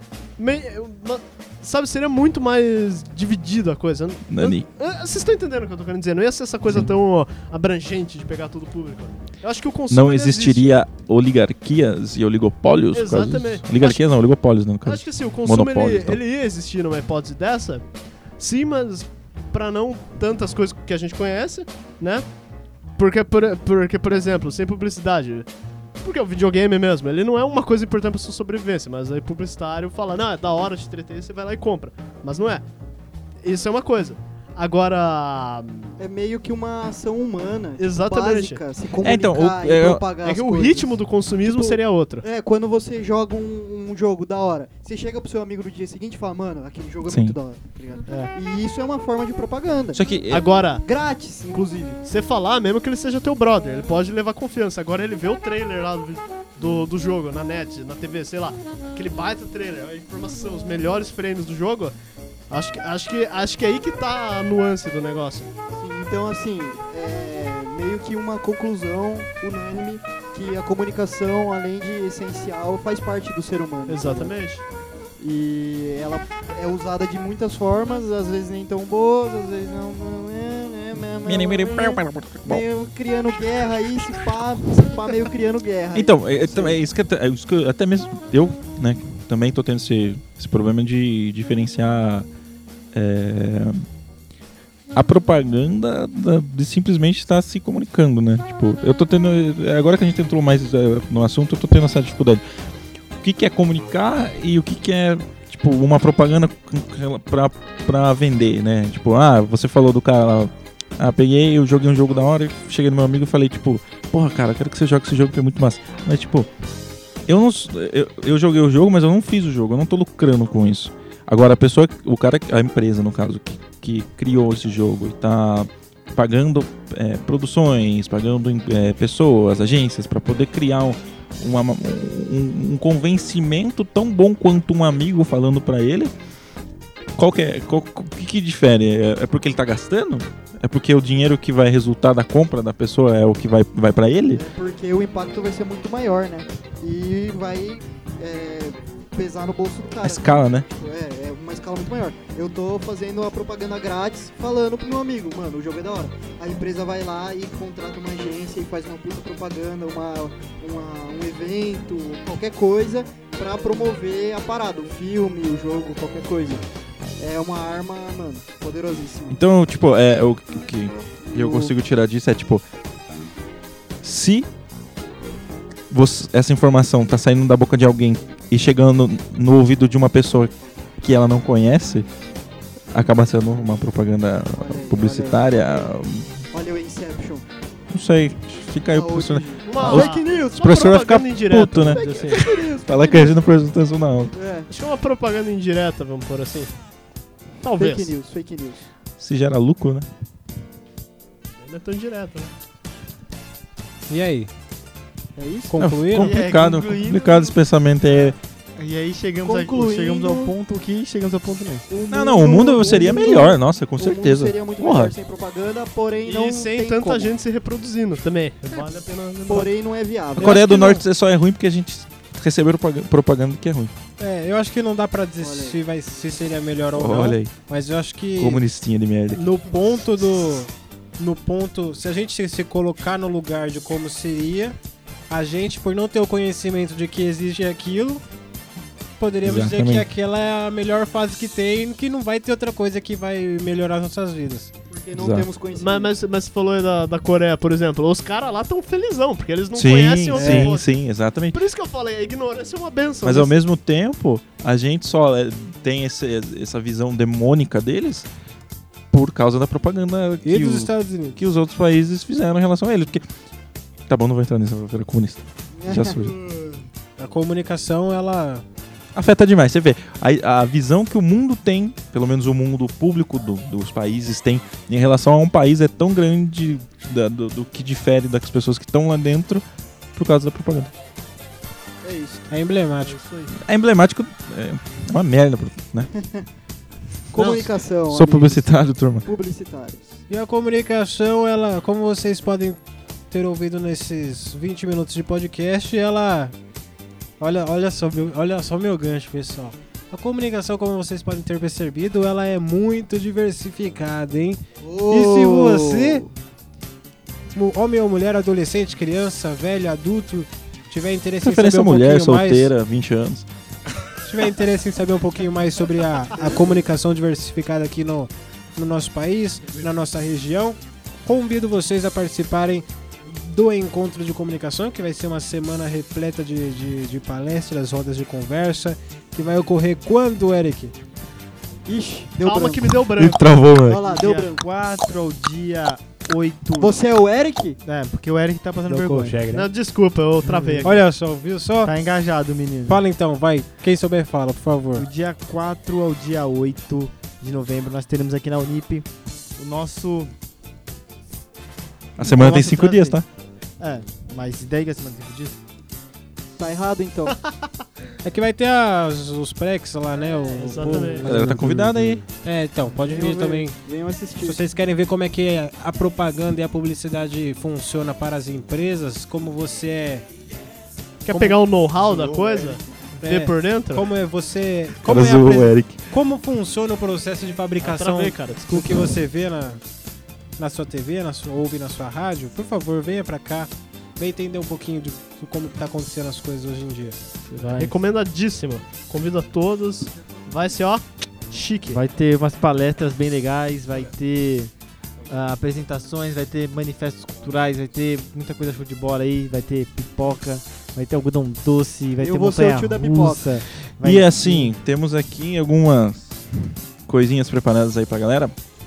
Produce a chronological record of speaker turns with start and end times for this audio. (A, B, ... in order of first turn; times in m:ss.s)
0:00.4-0:10.8 A
0:04.3-0:04.6 B
0:09.9-0:16.2 B
0:12.9-0:14.0 A
0:14.8-0:17.8 A
0:18.4-0:22.2 A
0:23.0-0:25.5 A
0:26.0-0:32.6 A
0:33.4-0:36.0 A
0:36.0-0:50.0 C
0:37.8-0:38.6 A
0:39.0-0:40.0 B
0:40.2-0:42.2 A
0:47.1-0:47.4 B
0:50.0-0:50.4 B
0:50.3-0:50.8 A
0:50.8-0:52.0 C
0:52.0-1:01.9 A
1:02.5-1:05.5 A
1:05.7-1:14.3 C
1:13.9-1:14.6 A
1:15.2-1:26.8 C
1:21.3-1:22.6 B
1:26.0-1:32.3 B
1:32.9-1:33.8 B
1:34.9-1:42.4 B
1:43.2-1:56.5 B
1:57.3-2:16.1 B
2:17.2-2:24.4 B
2:24.3-2:46.7 C
2:30.0-2:30.7 B
2:47.2-2:49.4 C
2:49.3-2:52.6 B
2:51.2-2:51.7 C
2:54.0-2:54.5 B
2:55.9-3:02.1 B
3:02.9-3:06.3 B
3:04.5-3:05.9 C
3:06.5-3:07.5 C
3:07.9-3:14.4 B
3:08.9-3:10.8 C
3:09.7-3:12.5 A
3:11.9-3:13.3 C
3:14.3-3:14.7 C
3:14.7-3:16.7 A
3:17.6-3:18.1 A
3:17.8-3:18.9 C
3:19.2-3:20.1 B
3:21.6-3:22.5 A
3:24.1-3:24.5 D
3:25.4-3:25.7 C
3:25.7-3:26.4 D
3:25.8-3:28.4 B
3:26.2-3:31.9 E
3:29.4-3:30.5 C
3:31.9-3:37.3 C
3:32.1-3:35.2 B
3:36.2-3:39.7 A
3:39.5-3:40.7 C
3:40.4-3:43.9 B
3:40.4-3:41.0 A
3:44.2-3:48.6 D
3:45.4-3:45.8 C
3:46.9-3:47.6 B
3:48.4-3:49.5 B
3:49.3-3:54.8 D
3:55.3-3:58.2 D
3:59.2-4:04.7 D
3:59.4-4:00.1 B
4:04.9-4:06.1 C
4:05.2-4:05.5 B
4:05.8-4:10.9 A
4:09.8-4:11.6 B
4:10.3-4:10.7 D
4:11.5-4:13.6 A
4:13.2-4:18.3 B
4:19.1-4:23.2 B
4:20.4-4:21.4 D
4:24.1-4:26.4 B
4:25.8-4:26.8 C
4:27.2-4:28.6 D
4:29.1-4:40.9 B
4:42.0-4:42.5 C
4:42.5-4:43.2 D
4:43.0-4:43.5 A
4:43.6-4:46.1 B
4:46.1-4:46.5 C
4:47.3-4:50.2 C
4:47.4-4:47.7 A
4:47.4-4:49.3 B
4:50.3-4:56.5 D
4:57.4-5:06.2 D
5:04.8-5:06.3 C
5:07.5-5:12.7 D
5:11.4-5:13.5 B
5:14.2-5:31.0 D
5:31.9-5:32.9 C
5:32.4-5:33.4 A
5:33.2-5:34.0 B
5:33.9-5:34.6 C
5:34.0-5:37.0 E
5:36.8-5:37.8 C
5:37.8-5:39.4 E
5:38.9-5:39.6 D
5:39.5-5:41.0 A
5:40.4-5:41.0 E
5:40.8-5:41.9 D
5:41.8-5:43.0 E
5:42.9-5:45.1 D
5:45.0-5:49.1 E
5:49.6-5:50.3 E
5:52.2-5:53.3 B
5:52.2-5:53.2 E
5:53.8-5:55.6 E
5:56.6-5:57.4 C
5:58.2-6:03.8 D
6:00.6-6:01.3 A
6:00.8-6:02.2 E
6:01.2-6:02.3 B
6:03.1-6:04.6 C
6:04.4-6:10.3 D
6:11.2-6:14.1 A
6:11.3-6:11.6 D
6:12.0-6:12.9 C
6:13.2-6:19.8 D
6:15.0-6:16.0 B
6:17.8-6:19.1 A
6:20.6-6:27.2 D
6:27.5-6:27.9 E
6:27.6-6:32.0 A
6:31.9-6:34.7 E
6:35.3-6:44.8 E
6:42.2-6:43.6 C
6:44.0-6:46.5 B
6:47.1-6:48.6 B